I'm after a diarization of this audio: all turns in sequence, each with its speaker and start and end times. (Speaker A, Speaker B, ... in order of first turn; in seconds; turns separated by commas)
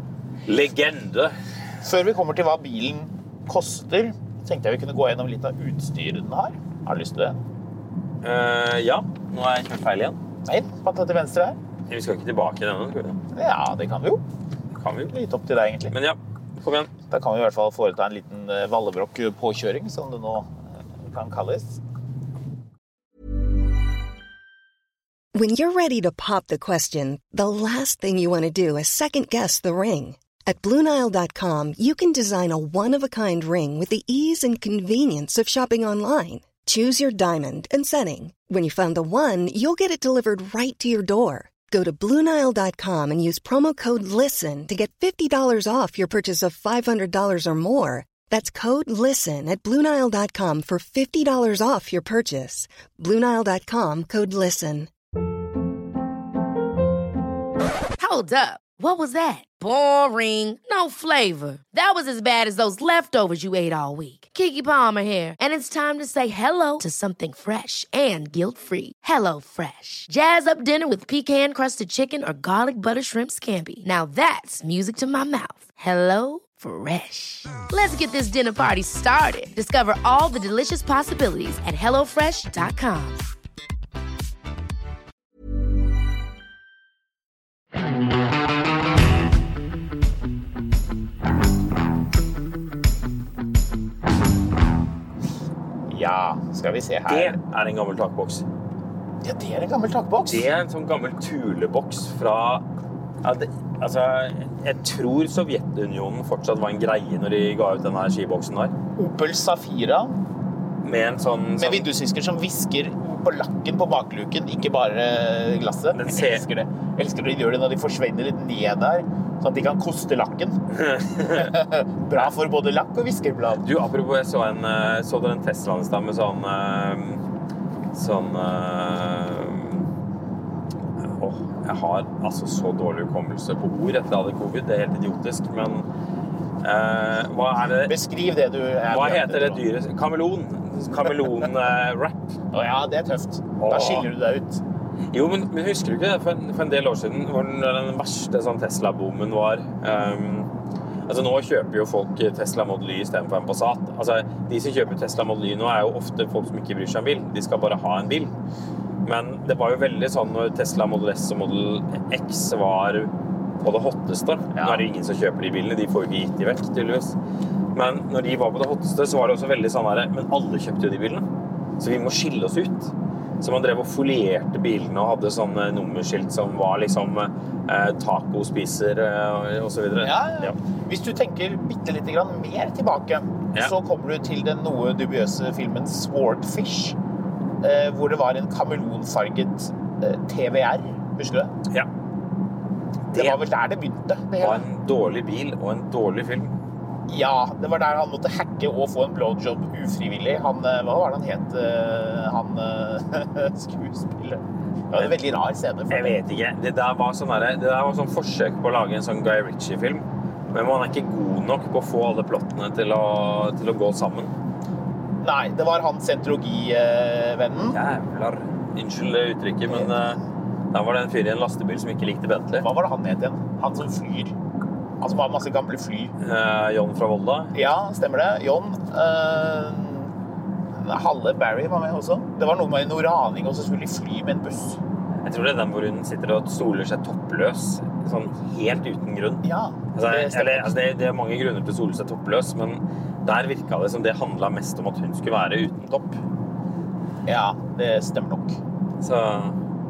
Speaker A: 0.5-1.3, Speaker B: 1.8-7.4, Speaker A: 8.2-10.2, Speaker B: 10.4-11.6, Speaker A: 11.9-13.2, Speaker B: 13.3-14.2, Speaker A: 14.8-15.1, Speaker B: 15.1-15.9, Speaker A: 15.9-16.9, Speaker B: 17.1-21.8, Speaker C: 25.3-54.9, Speaker D: 58.0-83.2, Speaker B: 95.9-97.4, Speaker A: 97.1-98.4, Speaker B: 99.2-100.5, Speaker A: 100.2-102.6, Speaker A: 103.2-108.7, Speaker B: 109.0-110.2, Speaker A: 110.8-111.9, Speaker B: 111.6-120.6, Speaker A: 115.9-116.5, Speaker A: 120.7-121.5, Speaker B: 121.2-123.6, Speaker A: 123.6-127.2, Speaker A: 127.9-129.9, Speaker A: 131.0-135.8, Speaker A: 136.6-138.0, Speaker B: 137.8-139.6, Speaker A: 138.9-142.4, Speaker B: 142.5-144.6, Speaker A: 143.6-144.1, Speaker A: 145.1-150.5, Speaker A: 151.1-158.3, Speaker A: 159.0-167.2, Speaker B: 164.5-164.8, Speaker A: 167.7-171.2, Speaker A: 171.8-180.6, Speaker B: 180.0-187.0, Speaker B: 187.6-191.5, Speaker B: 193.1-194.6, Speaker A: 193.1-193.4, Speaker A: 194.4-196.5, Speaker B: 197.1-206.2, Speaker A: 205.9-214.3, Speaker B: 215.2-217.8, Speaker A: 217.7-220.2, Speaker A: 220.7-222.7, Speaker B: 222.6-224.3, Speaker B: 225.0-226.1, Speaker A: 226.2-227.5, Speaker B: 227.5-230.1, Speaker B: 230.8-234.8, Speaker A: 235.2-239.4, Speaker B: 239.4-240.7, Speaker A: 239.9-246.2, Speaker B: 247.2-248.6, Speaker A: 249.0-249.6